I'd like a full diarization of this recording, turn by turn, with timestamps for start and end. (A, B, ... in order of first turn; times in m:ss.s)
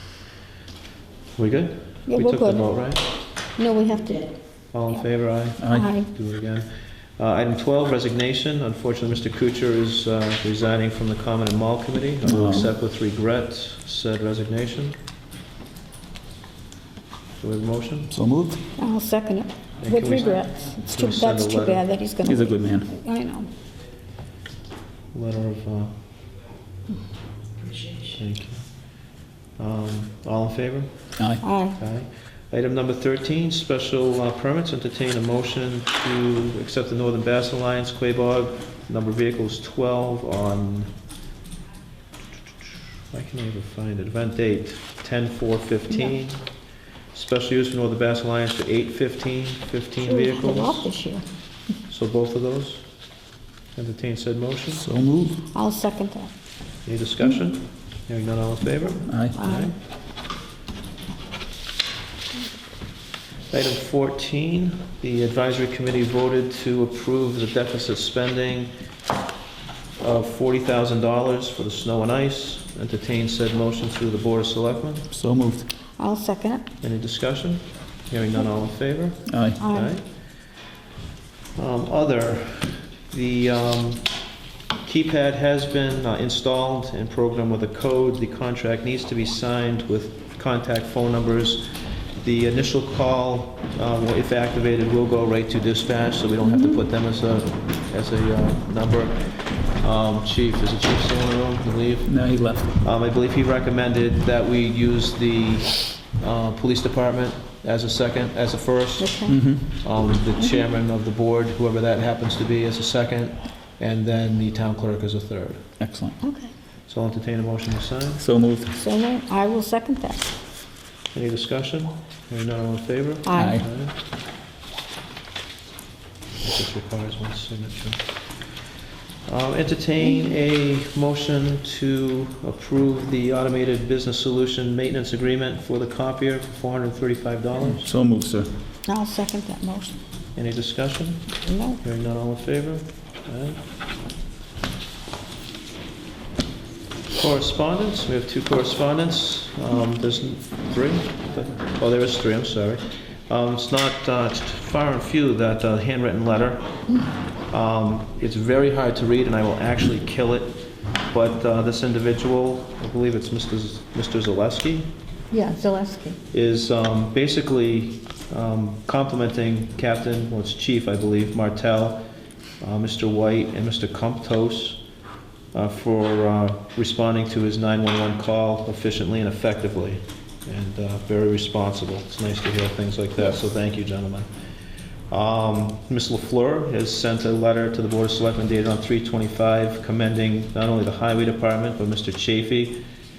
0:01.4-0:03.0 A
0:02.1-0:02.7 B
0:03.6-0:04.3 B
0:04.7-0:15.0 A
0:05.6-0:05.9 C
0:05.7-0:06.1 B
0:12.2-0:12.7 C
0:17.4-0:18.1 A
0:18.1-0:18.6 C
0:18.8-0:23.5 B
0:19.8-0:21.8 A
0:22.2-0:22.9 C
0:25.1-0:25.9 A
0:28.1-0:28.6 A
0:29.6-0:31.1 A
0:31.2-0:31.4 C
0:31.4-0:31.8 B
0:31.8-0:40.9 A
0:43.1-0:46.4 A
0:47.1-0:50.9 A
0:50.0-0:51.2 B
0:51.9-0:52.8 A
0:53.8-0:54.8 A
0:54.7-0:55.4 C
0:55.5-0:56.3 B
0:56.8-0:59.7 A
0:59.1-0:59.4 C
0:59.3-0:59.7 B
1:03.5-1:08.7 A
1:10.0-1:15.1 A
1:15.1-1:15.7 C
1:16.0-1:16.6 B
1:16.8-1:20.0 A
1:19.3-1:19.6 C
1:19.6-1:19.9 B
1:21.6-1:24.1 A
1:24.8-1:49.2 A
1:36.4-1:36.8 B
1:42.1-1:42.7 C
1:49.0-1:49.6 B
1:49.3-1:49.6 C
1:49.8-1:55.6 A
1:55.8-1:56.2 C
1:56.2-1:56.5 B
1:56.9-1:58.2 A
1:58.2-1:58.7 C
1:58.7-2:00.3 B
2:01.1-2:03.9 A
2:03.2-2:03.6 B
2:03.4-2:03.6 C
2:06.4-2:08.1 A
2:09.3-2:17.9 A
2:17.8-2:18.5 C
2:18.8-2:20.0 B
2:20.4-2:21.3 A
2:21.4-2:21.8 B
2:21.8-2:23.6 A
2:27.2-2:36.7 A
2:37.5-2:44.9 A
2:45.3-2:46.2 B
2:46.3-2:52.0 A
2:52.6-2:54.8 A
2:55.5-3:04.3 A
3:05.1-3:12.8 A